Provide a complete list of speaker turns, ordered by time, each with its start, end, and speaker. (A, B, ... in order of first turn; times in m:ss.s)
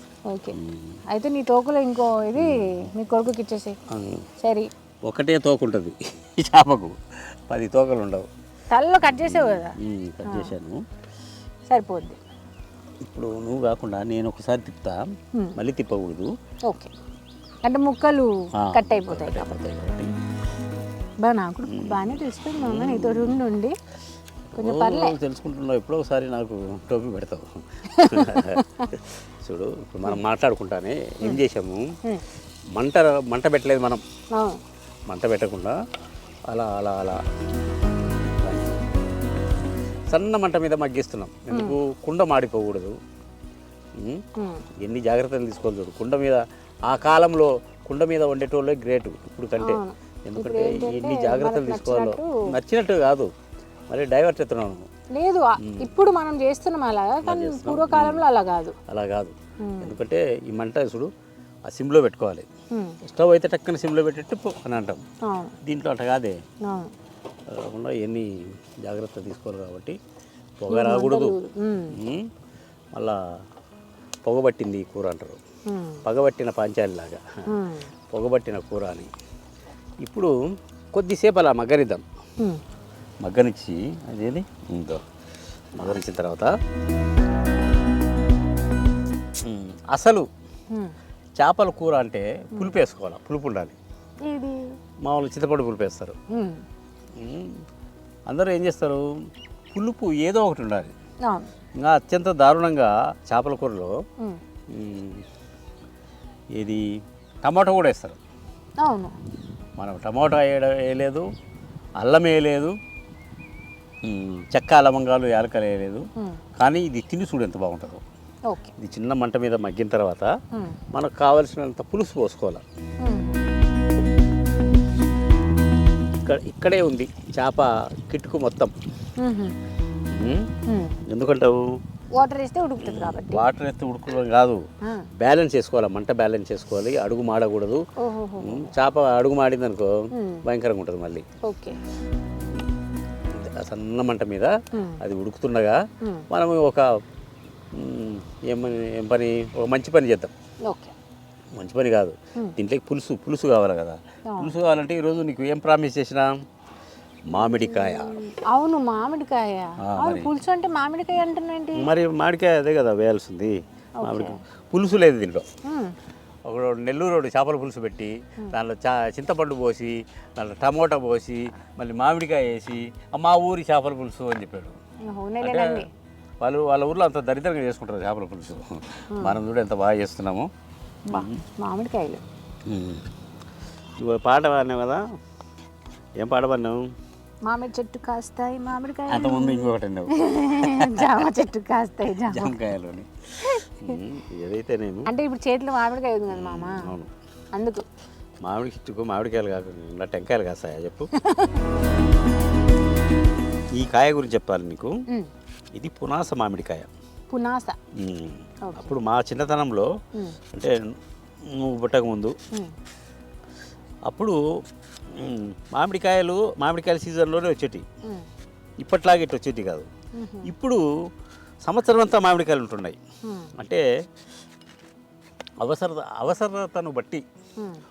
0:00.3-0:00.6 A
0:00.6-0:01.0 B
0:01.1-0:03.8 A
0:02.4-0:02.9 B
0:03.9-0:04.3 B
0:04.4-0:04.7 A
0:05.0-0:08.3 B
0:08.7-0:10.5 A
0:09.2-0:10.8 B
0:11.7-0:12.2 A
0:13.0-0:16.3 B
0:16.7-0:16.9 A
0:17.6-0:19.5 A
0:18.6-0:20.1 B
0:21.2-0:23.8 A
0:21.7-0:23.4 B
0:24.5-0:31.9 B
0:24.6-0:25.2 A
0:27.9-0:28.9 A
0:32.7-0:34.0 B
0:34.3-0:34.6 A
0:35.1-0:35.8 B
0:36.5-0:37.2 B
0:38.4-0:38.8 B
0:40.1-0:43.0 B
0:41.5-0:41.8 A
0:44.0-0:44.2 B
0:44.4-0:44.6 A
0:44.8-0:53.3 B
0:49.6-0:52.4 A
0:53.9-0:54.9 B
0:55.1-0:58.8 A
0:55.6-0:55.9 B
0:57.2-0:58.3 B
0:58.9-1:01.1 B
0:59.6-1:00.0 A
1:01.7-1:02.5 B
1:02.7-1:03.0 A
1:03.0-1:05.0 B
1:05.2-1:05.6 A
1:05.6-1:06.4 B
1:06.6-1:06.9 A
1:07.5-1:10.0 B
1:10.6-1:11.4 B
1:10.7-1:12.0 A
1:11.9-1:12.3 B
1:14.2-1:15.4 B
1:15.7-1:16.0 A
1:16.0-1:17.5 B
1:17.5-1:17.9 A
1:18.1-1:19.1 B
1:20.0-1:20.3 B
1:20.9-1:22.0 B
1:23.2-1:25.0 B
1:25.8-1:26.5 B
1:29.4-1:30.3 B
1:31.4-1:33.8 B
1:34.2-1:34.7 A
1:35.0-1:36.2 B
1:36.3-1:36.6 A
1:37.2-1:37.6 B
1:38.3-1:39.1 B
1:39.7-1:40.9 B
1:41.8-1:44.0 B
1:44.7-1:45.3 B
1:46.5-1:46.9 B
1:47.4-1:48.2 B
1:48.8-1:49.2 A
1:49.8-1:51.3 B
1:52.0-1:52.8 B
1:54.0-1:58.0 B
1:58.5-1:58.8 A
1:58.8-2:00.3 B
2:00.9-2:02.6 B
2:03.0-2:03.4 A
2:06.2-2:08.7 B
2:09.2-2:09.6 A
2:10.1-2:10.5 B
2:10.7-2:11.0 A
2:11.1-2:11.8 B
2:12.2-2:13.4 A
2:12.8-2:14.6 B
2:14.8-2:15.1 A
2:15.2-2:17.8 B
2:18.0-2:18.7 A
2:18.4-2:21.3 B
2:20.1-2:20.4 A
2:21.4-2:21.8 A
2:23.3-2:26.9 B
2:24.7-2:25.0 A
2:27.7-2:30.3 B
2:30.7-2:30.9 A
2:31.6-2:36.3 B
2:34.3-2:34.5 A
2:37.3-2:38.2 B
2:37.4-2:41.9 A
2:39.8-2:40.3 B
2:41.8-2:45.5 B
2:44.0-2:44.4 A
2:45.7-2:45.9 A
2:46.5-2:54.8 B
2:55.1-2:55.9 A
2:55.4-2:55.9 B
2:56.4-3:00.5 B
3:01.1-3:02.2 A
3:01.1-3:01.4 B
3:02.7-3:03.1 B
3:04.0-3:05.0 B
3:06.2-3:06.9 B
3:07.5-3:12.6 A
3:09.1-3:11.3 B
3:12.2-3:15.1 B
3:13.4-3:14.0 A
3:15.1-3:16.9 A
3:16.3-3:17.1 B
3:17.5-3:17.8 A
3:18.4-3:21.1 B
3:21.2-3:21.6 A
3:23.8-3:25.0 B
3:25.8-3:26.9 B
3:27.3-3:27.8 A
3:28.0-3:29.9 B
3:28.6-3:28.9 A
3:30.5-3:32.4 B
3:34.1-3:34.4 B
3:35.1-3:37.9 B
3:38.8-3:39.9 B
3:40.2-3:40.5 A
3:40.4-3:40.8 B
3:41.6-3:43.0 B
3:43.3-3:43.5 A
3:43.6-3:43.8 B
3:45.6-3:47.2 B